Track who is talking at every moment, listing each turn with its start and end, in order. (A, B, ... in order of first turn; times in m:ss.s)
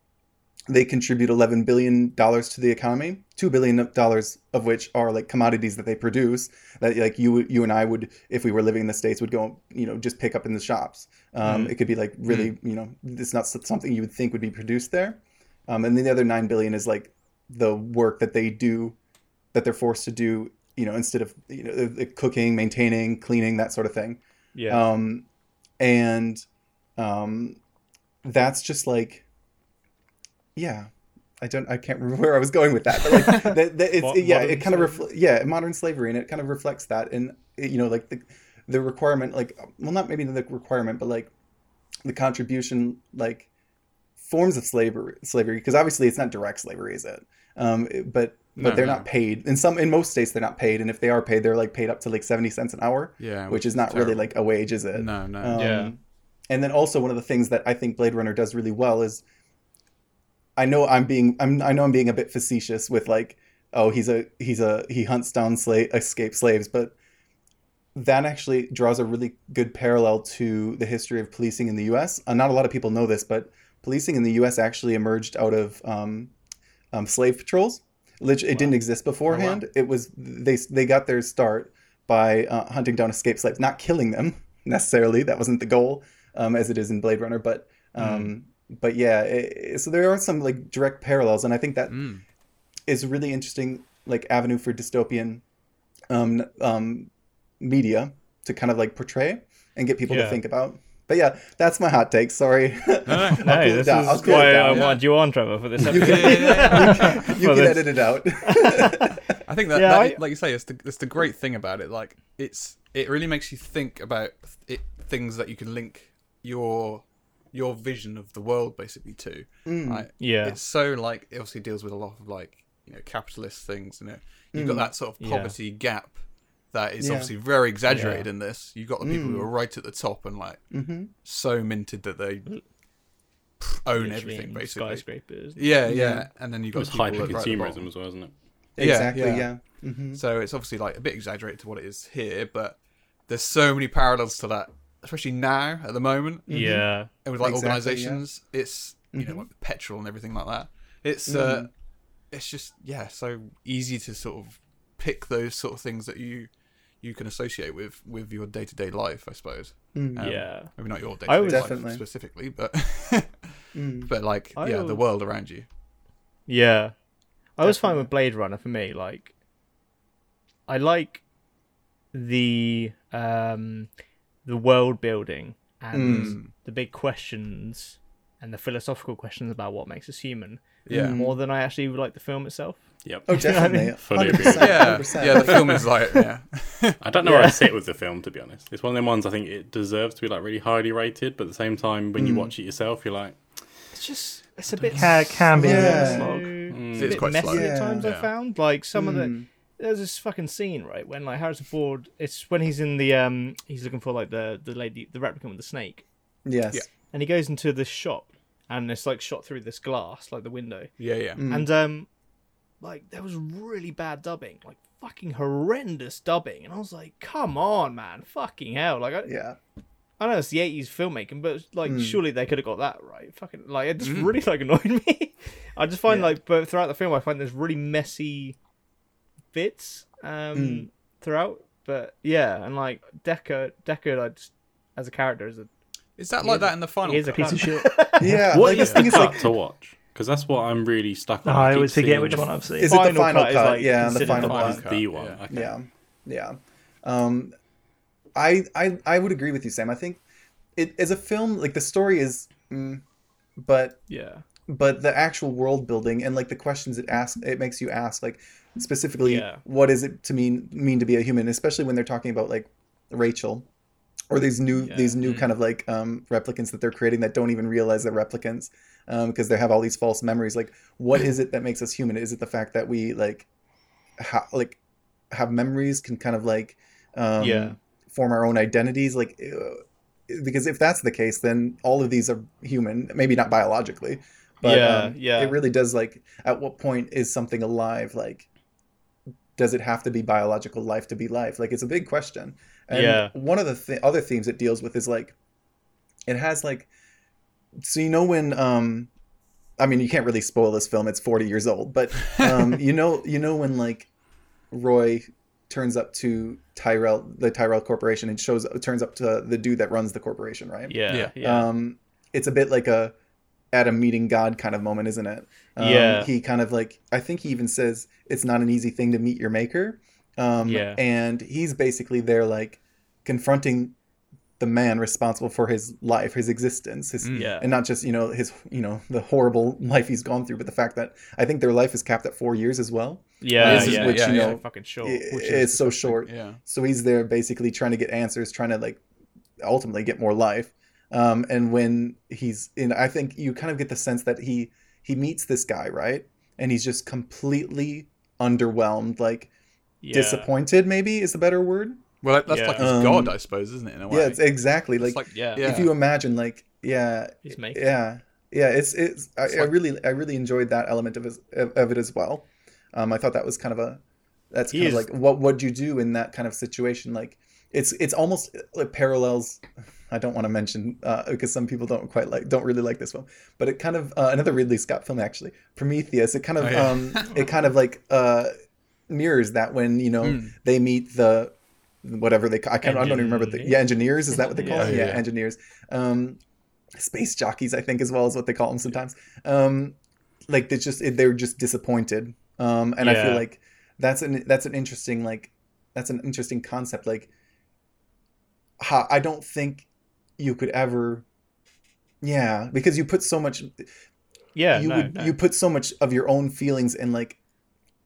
0:00.7-0:19.0 A
0:11.4-0:11.7 B
0:12.3-0:12.5 B
0:19.5-0:25.3 A
0:24.6-0:24.9 C
0:25.8-0:26.4 A
0:27.0-0:27.6 A
0:28.2-0:29.2 A
0:30.6-0:30.9 A
0:31.4-0:41.3 A
0:33.9-0:35.0 C
0:42.0-0:43.5 A
0:44.2-0:59.2 A
0:48.6-0:49.1 B
0:53.2-0:54.3 B
0:54.9-0:55.9 B
0:55.5-0:55.9 C
1:00.6-1:07.0 A
1:08.0-1:16.3 A
1:16.9-1:32.1 A
1:19.3-1:19.6 B
1:28.0-1:28.3 B
1:31.9-1:32.2 B
1:32.9-1:35.4 A
1:36.1-1:45.0 A
1:40.1-1:40.4 C
1:43.1-1:45.0 B
1:43.4-1:49.2 C
1:45.9-1:47.3 B
1:45.9-1:49.2 A
1:49.5-2:06.2 B
1:49.7-1:50.2 C
1:59.7-2:00.1 A
2:00.2-2:00.6 C
2:04.5-2:04.9 A
2:05.2-2:05.6 C
2:06.7-2:10.6 B
2:07.0-2:07.3 A
2:07.9-2:08.3 C
2:09.0-2:09.5 A
2:10.7-2:11.1 A
2:11.2-2:12.5 B
2:13.6-2:15.0 B
2:14.0-2:15.7 C
2:15.6-2:17.9 B
2:15.9-2:16.3 A
2:16.7-2:18.3 D
2:18.8-2:20.2 A
2:18.8-2:19.5 B
2:20.1-2:31.7 B
2:26.5-2:28.2 A
2:26.5-2:27.1 C
2:29.1-2:29.5 A
2:31.3-2:31.7 A
2:32.3-2:36.5 B
2:37.0-2:43.5 B
2:39.9-2:40.4 A
2:40.2-2:40.7 C
2:41.2-2:41.7 C
2:41.4-2:42.0 A
2:43.7-2:44.1 A
2:44.1-2:45.7 B
2:44.6-2:45.0 C
2:46.5-2:46.9 C
2:47.6-2:49.3 C
2:47.6-2:48.1 A
2:50.7-2:51.2 C
2:52.1-2:53.9 C
2:54.4-3:04.5 C
2:55.9-2:56.4 A
2:56.0-2:56.5 B
3:00.9-3:01.2 B
3:00.9-3:01.4 A
3:03.0-3:05.0 D
3:03.3-3:05.8 A
3:04.6-3:07.0 B
3:07.0-3:13.4 D
3:07.2-3:07.7 C
3:12.2-3:12.5 A
3:13.9-3:26.0 C
3:14.9-3:16.7 E
3:15.6-3:16.3 A
3:16.7-3:17.3 D
3:16.9-3:18.3 B
3:17.3-3:18.1 A
3:19.0-3:19.5 A
3:26.4-3:26.8 A
3:27.1-3:32.1 C
3:31.0-3:31.4 B
3:31.4-3:31.7 A
3:32.8-3:39.3 C
3:39.3-3:39.6 A
3:40.2-3:48.6 C
3:41.8-3:42.2 A
3:44.0-3:44.4 B
3:46.1-3:46.4 A
3:49.5-3:55.7 C
3:50.6-3:50.9 A
3:56.2-3:57.8 B
3:56.4-3:58.7 C
3:57.4-3:58.9 E
3:58.2-3:59.5 A
3:58.7-4:02.5 D
3:58.8-3:59.2 B
4:01.4-4:03.0 E
4:02.8-4:04.8 A
4:02.8-4:04.8 C
4:04.1-4:05.4 B
4:04.4-4:05.7 D
4:05.5-4:07.5 A
4:08.4-4:10.2 A
4:10.8-4:13.0 A
4:13.6-4:14.0 A
4:14.1-4:14.4 C
4:14.7-4:23.7 A
4:19.2-4:19.6 C
4:24.3-4:33.5 A
4:24.8-4:25.4 C
4:34.2-4:34.8 A
4:35.3-4:48.5 A
4:37.4-4:37.8 C
4:44.6-4:45.6 C
4:49.6-4:55.4 A
4:52.9-4:53.3 C
4:56.3-4:56.9 A
4:57.8-4:59.1 A
4:59.8-5:04.1 A
5:04.7-5:13.2 A
5:10.9-5:11.7 C
5:13.7-5:24.0 A
5:15.8-5:16.3 C
5:20.6-5:21.0 C
5:24.6-5:39.0 A
5:27.2-5:27.5 B
5:27.3-5:27.7 C
5:33.4-5:35.9 C
5:33.6-5:34.6 B
5:35.4-5:36.6 B
5:39.6-5:49.5 A
5:50.0-5:50.5 C
5:50.1-5:52.0 A
5:52.2-5:54.4 B
5:52.5-5:53.0 C
5:52.8-5:53.4 A
5:54.1-6:04.0 A
5:55.0-5:56.0 B
5:55.3-5:55.7 C
5:57.4-5:57.9 C
6:04.5-6:18.5 A
6:04.7-6:05.1 C
6:16.6-6:17.3 B
6:19.1-6:26.4 A
6:20.2-6:20.5 B
6:22.8-6:23.8 C
6:24.6-6:24.9 C
6:24.7-6:25.2 B
6:27.0-6:30.0 A
6:30.5-6:37.3 A
6:33.0-6:33.4 C
6:38.8-6:39.9 A
6:40.4-6:41.2 A
6:42.2-6:43.9 A
6:44.6-6:45.4 C
6:44.7-6:47.4 A